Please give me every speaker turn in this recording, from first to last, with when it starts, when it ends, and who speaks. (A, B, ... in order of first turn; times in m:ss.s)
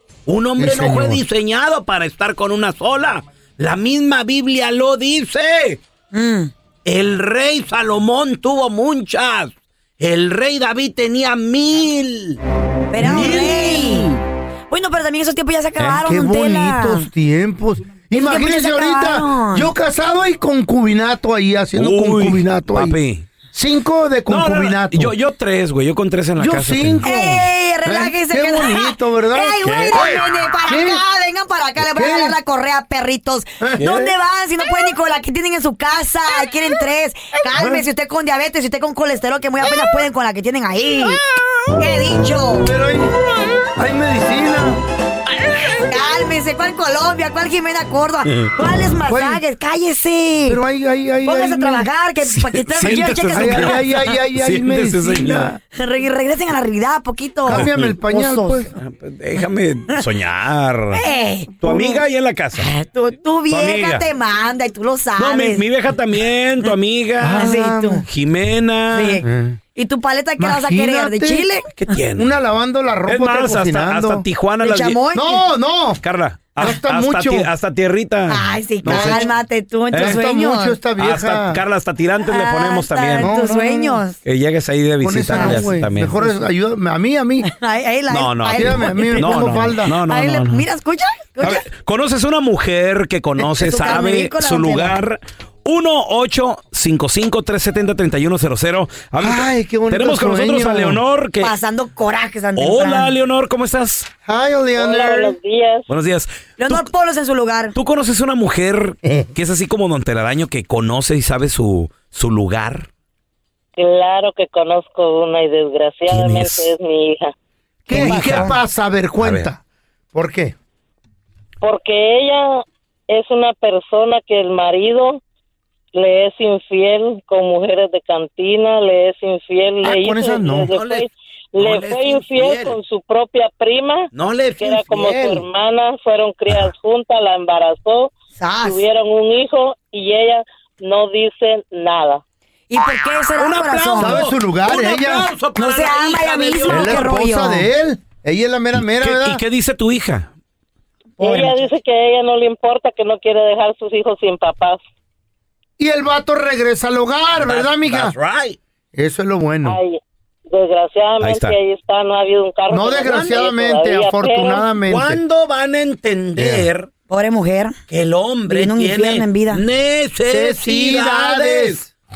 0:00.3-0:05.8 A
0:00.6-0:01.2 B
0:06.1-0:06.5 C
0:06.9-0:12.4 A
0:12.9-0:14.1 C
0:13.0-0:14.2 A
0:14.7-0:17.1 C
0:15.9-0:23.0 B
0:18.1-0:19.7 C
0:21.8-0:23.3 D
0:23.5-0:25.1 B
0:24.3-0:27.1 D
0:26.4-0:31.0 B
0:27.0-0:41.2 C
0:31.8-0:32.4 B
0:33.6-0:34.1 B
0:37.5-0:37.8 B
0:41.8-0:42.7 C
0:42.6-0:43.1 B
0:43.8-0:44.8 B
0:45.8-0:50.6 C
0:49.1-0:49.4 B
0:50.5-0:51.9 B
0:51.2-0:53.9 C
0:52.3-0:55.5 D
0:52.8-0:55.6 B
0:55.7-0:58.7 C
0:57.5-0:58.7 B
0:57.5-0:58.0 D
0:58.8-1:01.0 D
1:01.0-1:01.7 C
1:01.6-1:02.7 D
1:02.6-1:05.6 C
1:03.5-1:04.0 D
1:05.2-1:07.4 D
1:07.2-1:08.0 B
1:07.4-1:08.0 C
1:08.1-1:09.2 D
1:08.9-1:11.7 C
1:09.2-1:09.6 B
1:10.4-1:11.5 B
1:11.8-1:12.1 D
1:12.2-1:14.2 B
1:13.0-1:15.0 D
1:14.6-1:15.4 C
1:15.1-1:16.0 B
1:16.0-1:19.3 D
1:16.6-1:17.5 B
1:18.3-1:20.8 C
1:18.8-1:19.3 B
1:19.9-1:20.2 D
1:20.0-1:21.6 B
1:21.0-1:23.3 D
1:22.3-1:24.2 C
1:23.2-1:24.0 B
1:24.2-1:26.2 D
1:25.0-1:27.5 B
1:25.3-1:25.6 C
1:27.4-1:31.6 C
1:28.2-1:28.6 A
1:28.3-1:30.7 D
1:28.5-1:30.0 B
1:31.4-1:41.5 D
1:33.6-1:35.0 C
1:39.2-1:41.0 B
1:41.4-1:43.1 C
1:42.6-1:44.1 D
1:44.2-1:45.4 B
1:44.8-1:45.9 E
1:45.9-1:46.9 D
1:46.6-1:47.7 C
1:47.7-1:52.9 D
1:49.0-1:49.3 B
1:53.8-1:57.3 E
1:56.1-1:56.4 A
1:56.2-1:56.6 D
1:57.9-1:59.6 B
1:57.9-1:58.6 C
1:58.0-1:58.3 D
2:00.1-2:00.6 B
2:01.6-2:05.2 E
2:06.0-2:14.1 E
2:09.8-2:10.7 B
2:10.7-2:11.0 A
2:11.6-2:12.8 A
2:14.1-2:15.4 A
2:14.6-2:18.1 E
2:18.4-2:18.8 C
2:18.6-2:22.2 E
2:22.7-2:24.2 C
2:23.4-2:27.1 A
2:24.0-2:25.3 B
2:25.6-2:27.7 C
2:26.7-2:29.4 B
2:28.8-2:30.3 D
2:31.2-2:31.5 C
2:31.2-2:31.6 B
2:31.2-2:34.8 E
2:35.8-2:38.1 B
2:37.4-2:38.6 A
2:39.0-2:39.8 B
2:39.7-2:40.0 E
2:40.5-2:44.6 E
2:41.2-2:41.6 D
2:42.7-2:45.2 B
2:44.8-2:46.9 A
2:46.4-2:46.7 B
2:47.1-2:47.8 C
2:47.9-2:51.8 A
2:48.5-2:49.6 C
2:50.3-2:51.9 B